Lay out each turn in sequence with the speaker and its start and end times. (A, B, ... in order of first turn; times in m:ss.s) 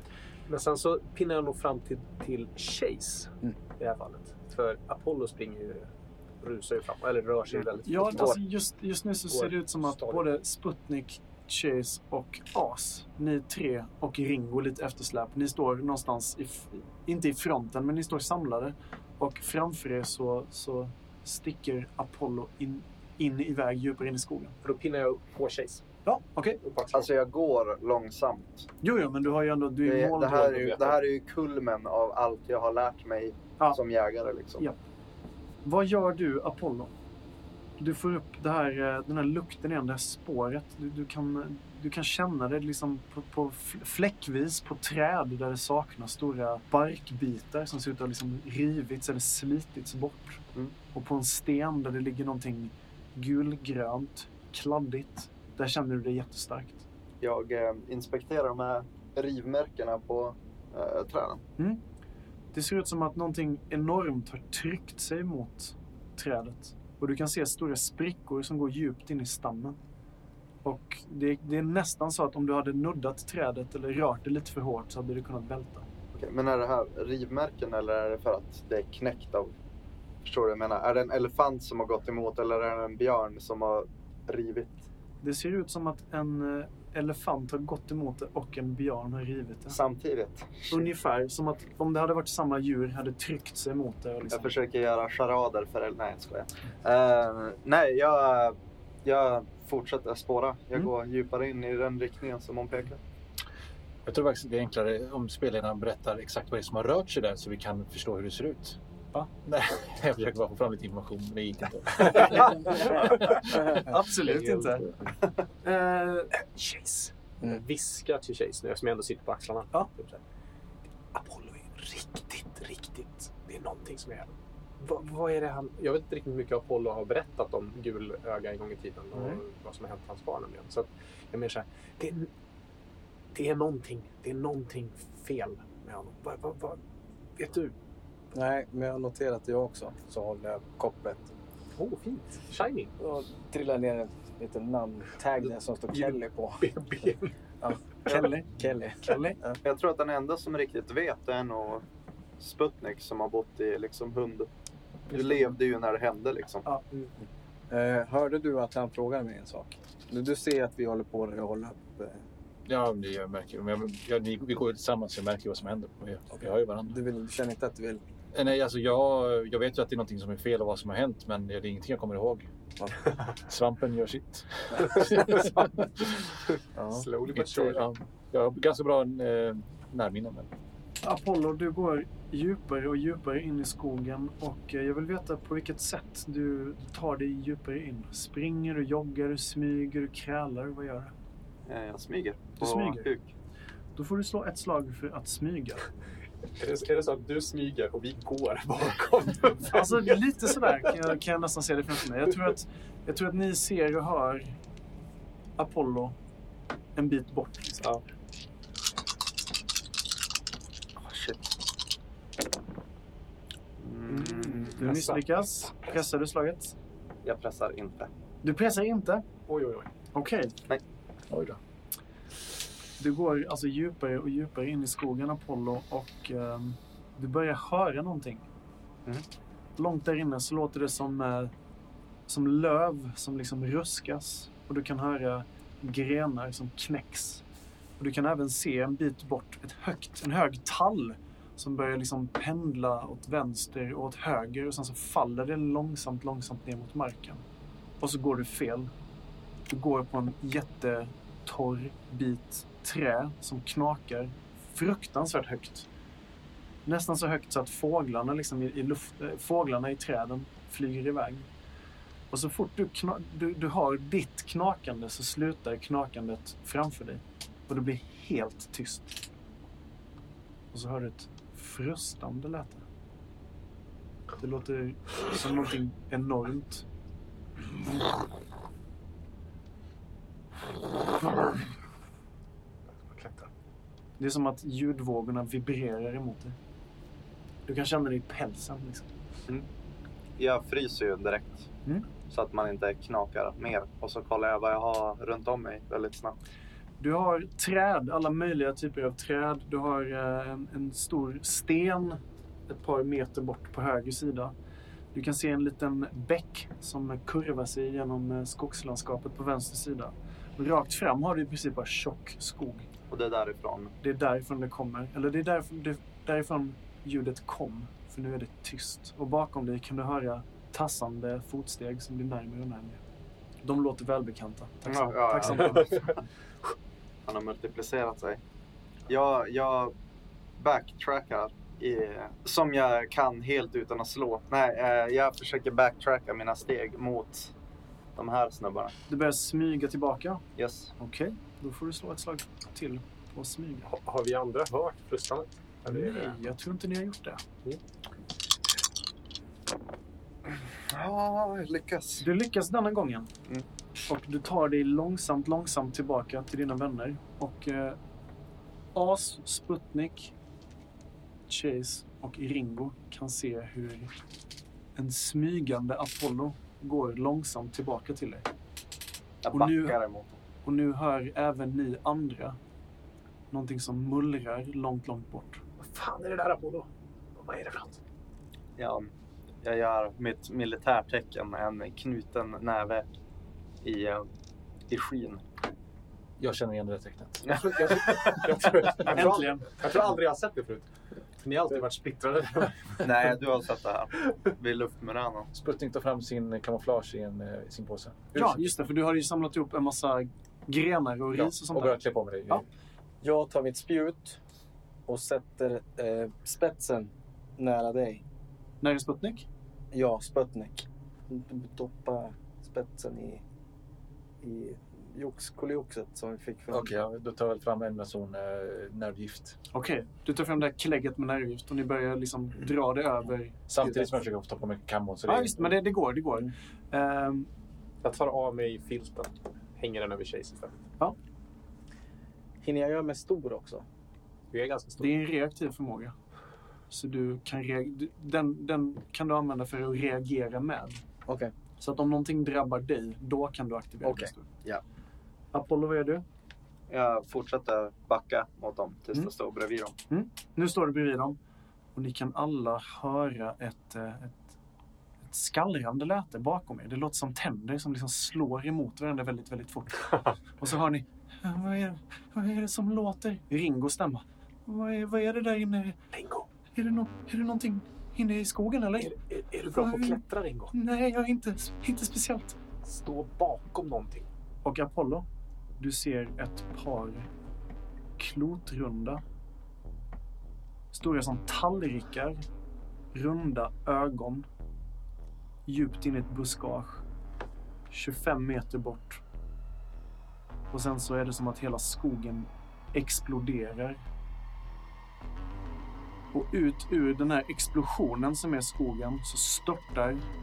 0:00.5-0:05.9 A
0:06.4-0:08.4 A
0:07.9-0:24.6 B
0:09.3-0:10.2 A
0:24.6-0:25.8 A
0:26.1-0:26.6 B
0:26.6-0:27.1 A
0:26.9-0:28.7 C
0:28.8-0:30.8 B
0:29.8-0:34.6 C
0:30.5-0:31.0 A
0:35.6-0:36.9 B
0:37.8-0:50.4 B
0:50.9-0:56.8 B
0:57.2-1:01.4 C
1:02.5-1:09.8 B
1:10.6-1:15.9 B
1:16.1-1:19.5 C
1:20.2-1:24.9 C
1:25.2-1:29.8 B
1:29.7-1:30.9 C
1:30.7-1:34.5 B
1:34.3-1:43.0 C
1:44.1-1:48.8 D
1:49.4-1:53.8 D
1:52.1-1:52.8 A
1:52.3-1:54.9 B
1:53.5-1:53.9 E
1:54.2-1:54.8 A
1:55.6-1:56.3 B
1:56.3-2:00.2 A
2:01.1-2:12.3 A
2:09.1-2:09.4 B
2:13.3-2:16.8 A
2:17.4-2:17.7 A
2:18.3-2:21.3 E
2:21.8-2:22.9 A
2:23.0-2:26.6 E
2:25.9-2:27.3 A
2:28.1-2:28.5 B
2:28.5-2:29.6 E
2:29.0-2:29.4 B
2:29.6-2:31.8 C
2:32.4-2:34.5 C
2:35.1-2:36.7 C
2:37.7-2:42.2 E
2:42.7-2:47.0 D
2:46.4-2:48.0 E
2:48.3-2:52.5 D
2:53.3-2:56.2 D
2:56.8-2:57.0 E
2:56.9-2:57.8 A
2:57.2-3:00.5 D
3:01.0-3:11.1 B
3:11.7-3:13.3 C
3:12.6-3:13.1 B
3:14.0-3:15.9 B
3:16.6-3:21.0 A
3:19.7-3:24.6 B
3:25.6-3:26.2 B
3:27.0-3:27.9 B
3:31.0-3:31.4 C
3:33.8-3:34.9 C
3:34.1-3:35.2 A
3:34.2-3:36.8 B
3:37.2-3:38.1 C
3:38.4-3:39.3 B
3:39.5-3:39.9 A
3:40.1-3:40.5 B
3:41.3-3:41.6 D
3:43.0-3:48.4 B
3:49.8-3:51.5 B
3:52.3-3:57.4 B
3:58.0-4:07.4 B
4:08.0-4:08.9 B
4:09.7-4:15.9 B
4:16.8-4:21.5 B
4:22.3-4:29.1 B
4:30.7-4:32.8 B
4:34.4-4:36.8 B
4:37.8-4:38.0 B
4:42.9-4:43.5 A
4:44.2-4:46.6 B
4:47.7-4:49.1 B
4:50.4-4:51.7 C
4:52.3-4:56.4 C
4:57.0-5:04.5 B
5:05.1-5:12.9 B
5:13.1-5:13.9 C
5:14.0-5:23.0 B
5:23.6-5:26.1 B
5:24.9-5:26.1 C
5:25.6-5:26.0 A
5:27.3-5:28.4 C
5:29.1-5:30.0 C
5:30.6-5:37.5 C
5:38.2-5:38.9 C
5:39.1-5:40.4 B
5:40.6-5:40.9 C
5:41.0-5:43.9 B
5:43.9-5:46.4 A
5:45.9-5:47.4 B
5:50.9-5:52.2 C
5:52.2-5:53.3 B
5:54.1-5:58.0 B
5:59.0-6:00.3 B
6:01.5-6:04.1 B
6:05.0-6:08.5 B
6:09.4-6:10.4 C
6:09.5-6:10.0 B
6:10.6-6:12.6 B
6:13.5-6:15.6 B
6:15.8-6:18.0 A
6:18.8-6:19.1 C
6:19.6-6:23.1 C
6:23.8-6:24.3 C
6:24.9-6:25.4 C
6:26.4-6:29.2 D
6:27.5-6:30.9 A
6:29.1-6:29.7 B
6:31.4-6:33.1 A
6:33.0-6:35.5 C
6:35.5-6:38.8 D
6:38.4-6:42.6 B
6:41.3-6:42.7 D
6:43.2-6:44.4 E
6:45.1-6:48.2 E
6:48.8-6:49.5 B
6:49.9-6:53.4 E
6:54.4-6:57.0 E
6:56.7-6:59.6 D
6:59.7-7:04.2 B
7:03.7-7:05.7 D
7:05.3-7:07.5 B
7:08.0-7:10.8 A
7:12.6-7:13.9 E
7:14.5-7:15.1 A
7:15.0-7:16.1 B
7:16.9-7:21.0 B
7:21.3-7:21.5 E
7:21.8-7:24.5 B
7:24.0-7:24.8 E
7:25.5-7:26.2 B
7:26.9-7:30.0 C
7:30.1-7:31.4 B
7:32.0-7:34.6 B
7:35.2-7:46.0 B
7:46.1-7:46.5 A
7:46.8-7:49.1 B
7:49.0-7:50.7 A
7:49.7-7:52.6 B
7:52.8-7:54.3 A
7:54.6-7:55.3 B
7:55.8-7:57.3 B
7:58.2-7:59.2 B
8:00.9-8:02.4 B
8:03.1-8:04.5 B
8:05.7-8:07.0 B
8:07.9-8:09.2 B
8:10.7-8:14.0 B
8:16.3-8:20.3 B